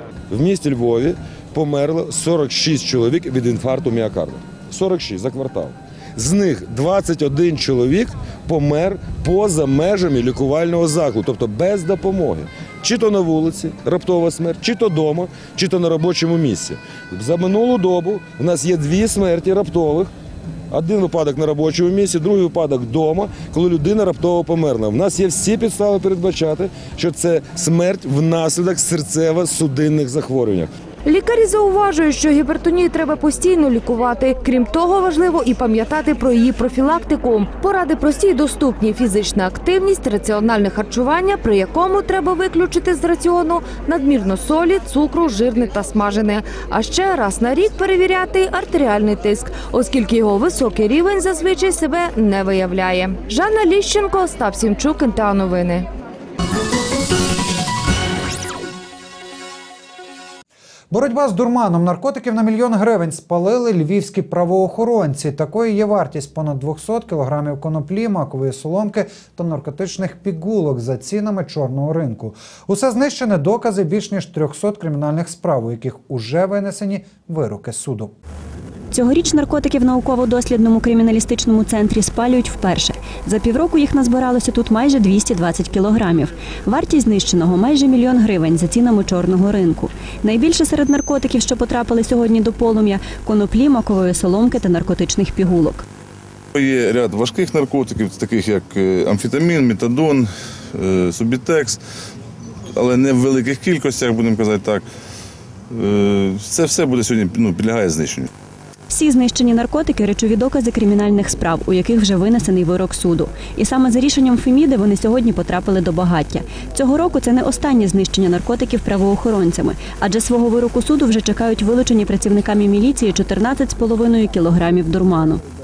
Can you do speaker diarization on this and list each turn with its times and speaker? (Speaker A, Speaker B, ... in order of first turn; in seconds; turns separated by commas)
Speaker A: 0.3-20.1, Speaker A: 20.7-30.7, Speaker B: 31.0-55.9, Speaker C: 60.9-78.1, Speaker D: 78.9-95.8, Speaker E: 96.5-101.8, Speaker E: 102.8-104.8, Speaker E: 105.7-108.3, Speaker D: 108.9-125.4